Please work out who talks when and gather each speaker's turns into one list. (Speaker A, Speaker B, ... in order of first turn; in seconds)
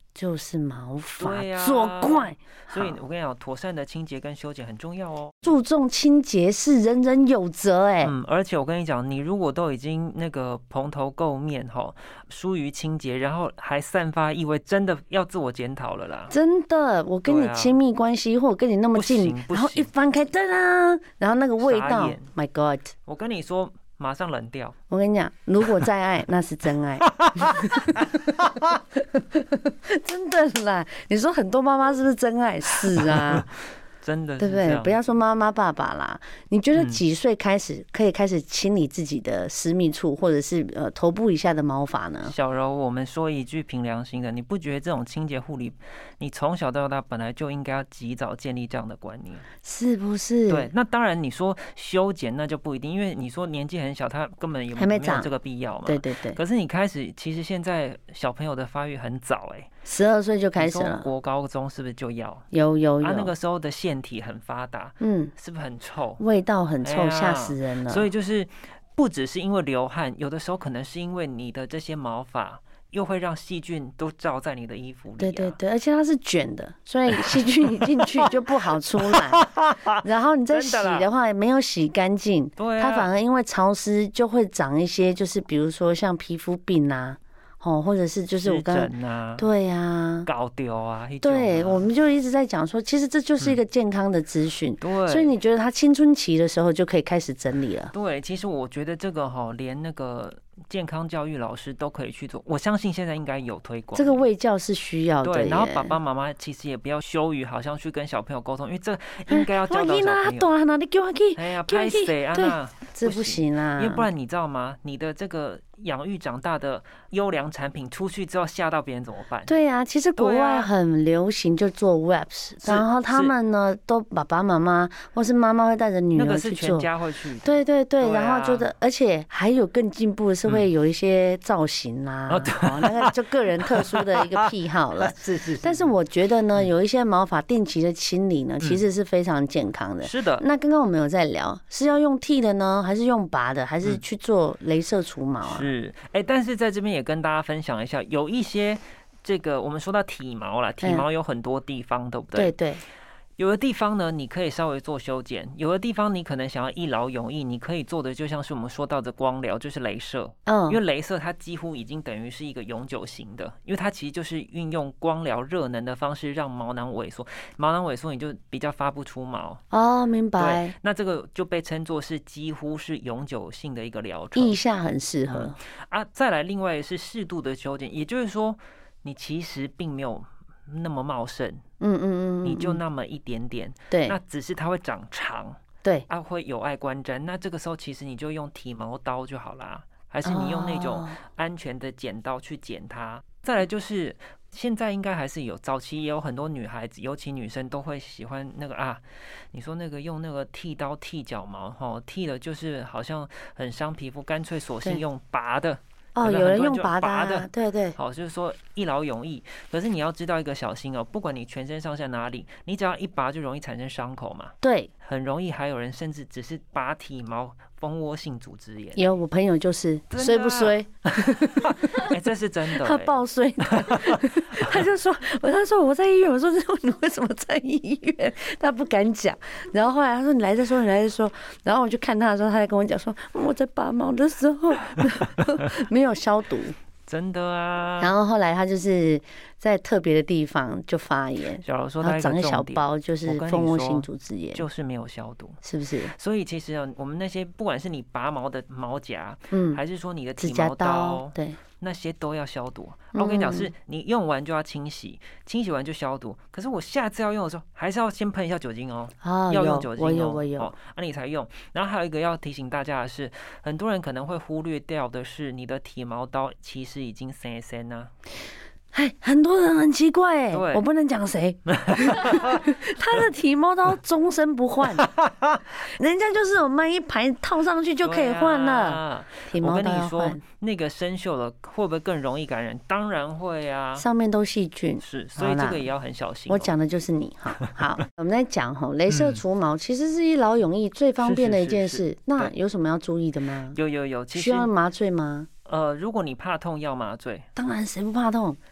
Speaker A: 0.1-3.0, 5.4-8.1, 16.3-22.9, 24.9-33.5, 34.4-42.3, 49.6-50.7, 54.8-55.3, 55.9-56.4, 59.8-61.1, 62.5-63.3, 65.0-65.3, 66.2-68.1, 75.2-79.5, 80.0-90.3, 91.2-97.9, 103.9-105.9, 109.3-114.1, 119.5-126.9, 127.4-145.7, 152.3-152.8, 160.5-160.8, 169.7-170.7, 174.3-175.6, 181.8-182.8, 183.9-184.2, 190.2-191.2, 206.2-208.0, 214.6-214.9, 218.9-222.1, 222.7-236.7, 238.0-244.6, 245.6-246.1, 249.5-249.8, 250.4-251.6, 253.1-253.7, 259.2-260.7, 268.9-275.1, 275.8-280.4, 284.0-285.8, 286.5-293.8, 294.3-295.5, 297.6-298.6
Speaker B: 1.2-5.3, 8.0-16.3, 17.2-17.8, 18.9-19.9, 21.6-22.3, 23.1-24.7, 27.2-27.8, 33.0-33.4, 34.0-35.0, 36.7-37.0, 42.2-49.4, 50.5-59.7, 60.6-62.5, 63.0-66.2, 66.8-75.6, 79.0-81.1, 82.6-83.1, 88.4-89.5, 90.2-91.9, 94.8-95.3, 97.9-104.2, 105.2-110.5, 111.3-119.5, 120.2-120.7, 122.6-123.3, 126.1-128.7, 132.3-133.1, 133.7-135.9, 140.0-140.4, 145.4-152.6, 153.4-169.6, 170.4-174.6, 175.3-181.6, 182.4-219.2, 220.1-223.2, 223.8-224.2, 237.1-238.1, 241.6-268.1, 270.5-270.8, 271.6-272.6, 278.0-284.0, 285.0-286.7, 289.1-289.4, 291.2-292.5, 293.7-294.7, 295.6-297.5